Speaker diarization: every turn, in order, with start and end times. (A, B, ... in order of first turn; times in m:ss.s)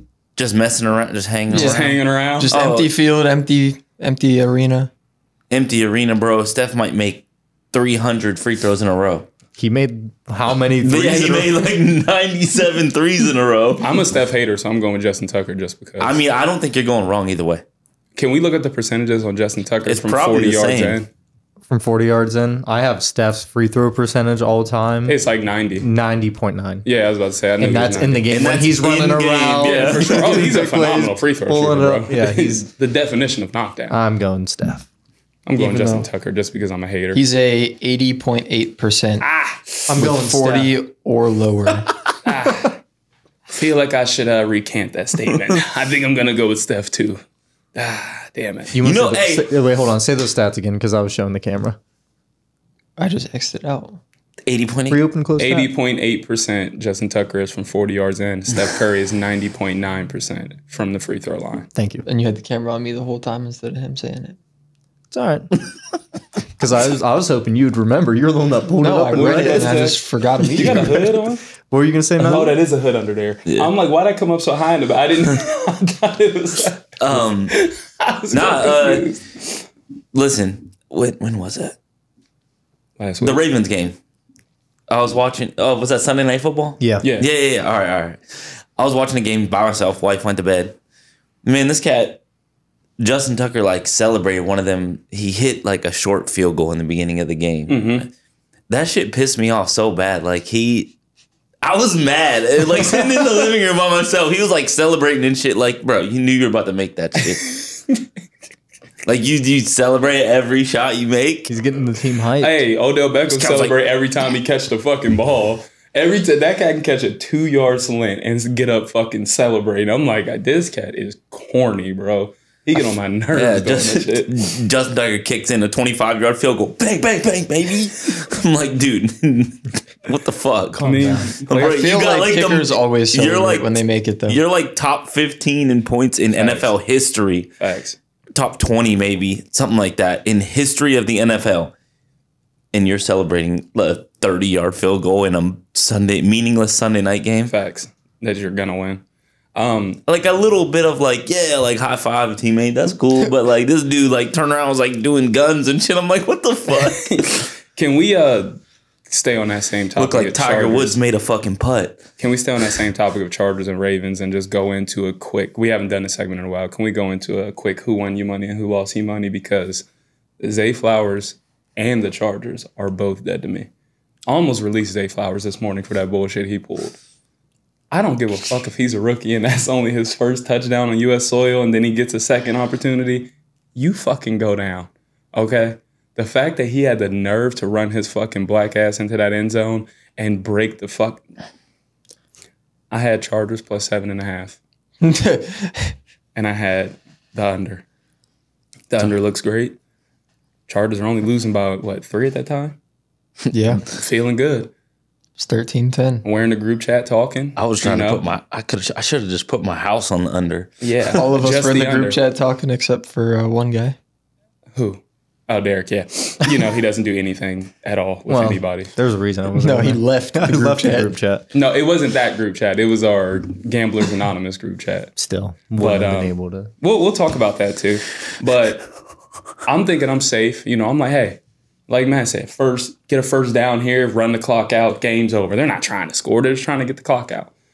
0:00.4-0:01.9 A
0:01.5-0:04.9 B
0:01.5-0:02.5 C
0:02.5-0:02.9 A
0:05.5-0:09.3 A
0:09.6-0:11.7 D
0:10.8-0:13.8 A
0:13.8-0:16.2 C
0:16.0-0:17.6 A
0:18.2-0:21.1 C
0:19.9-0:21.0 A
0:21.7-0:25.2 D
0:25.1-0:25.9 C
0:25.8-0:26.9 D
0:26.8-0:28.3 C
0:27.6-0:32.7 D
0:28.3-0:30.5 A
0:29.6-0:34.0 C
0:33.9-0:34.9 D
0:35.5-0:37.2 C
0:35.6-0:36.1 D
0:37.1-0:39.2 B
0:39.2-0:39.8 C
0:39.9-0:40.8 D
0:40.0-0:41.9 B
0:42.2-0:42.8 C
0:43.5-0:47.2 C
0:47.8-0:48.7 C
0:48.7-0:51.8 D
0:48.8-0:49.5 A
0:53.0-0:54.0 B
0:54.5-0:55.0 A
0:54.9-0:55.7 D
0:55.4-1:01.7 C
1:01.8-1:02.1 D
1:02.1-1:04.4 B
1:05.1-1:05.5 D
1:06.6-1:09.9 D
1:08.8-1:11.0 B
1:09.1-1:11.4 C
1:10.6-1:11.1 D
1:11.7-1:12.6 D
1:12.2-1:19.5 C
1:17.0-1:17.6 A
1:18.3-1:19.1 A
1:20.1-1:21.8 A
1:23.0-1:23.4 C
1:23.2-1:24.0 A
1:24.9-1:30.8 A
1:26.8-1:27.0 D
1:27.0-1:27.3 C
1:31.4-1:32.2 A
1:33.0-1:38.1 A
1:37.7-1:38.1 C
1:38.7-1:40.9 A
1:41.6-1:47.6 A
1:47.5-1:48.0 C
1:49.1-1:51.5 A
1:51.5-1:52.6 D
1:52.4-2:04.3 C
1:53.3-1:53.8 A
2:03.3-2:17.5 A
2:10.8-2:11.3 D
2:10.8-2:11.5 C
2:11.5-2:14.4 B
2:16.3-2:16.7 C
2:17.6-2:18.0 C
2:18.3-2:21.7 A
2:22.7-2:27.5 A
2:27.5-2:29.0 C
2:29.6-2:30.0 C
2:30.1-2:37.4 A
2:36.7-2:41.0 C
2:40.0-2:42.0 A
2:42.2-2:49.9 C
2:50.4-2:53.7 C
2:54.3-2:57.0 C
2:57.9-3:11.2 C
3:12.9-3:14.6 C
3:15.0-3:16.0 B
3:16.4-3:17.8 C
3:18.9-3:19.8 C
3:20.7-3:22.8 C
3:23.5-3:23.8 B
3:23.9-3:24.7 C
3:25.4-3:26.2 B
3:26.2-3:28.2 C
3:27.6-3:30.7 A
3:30.8-3:32.2 C
3:31.2-3:34.0 B
3:34.8-3:38.9 C
3:38.3-3:41.5 D
3:39.6-3:41.2 B
3:41.5-3:45.1 C
3:45.2-3:46.7 D
3:45.8-3:48.9 C
3:49.6-3:57.5 C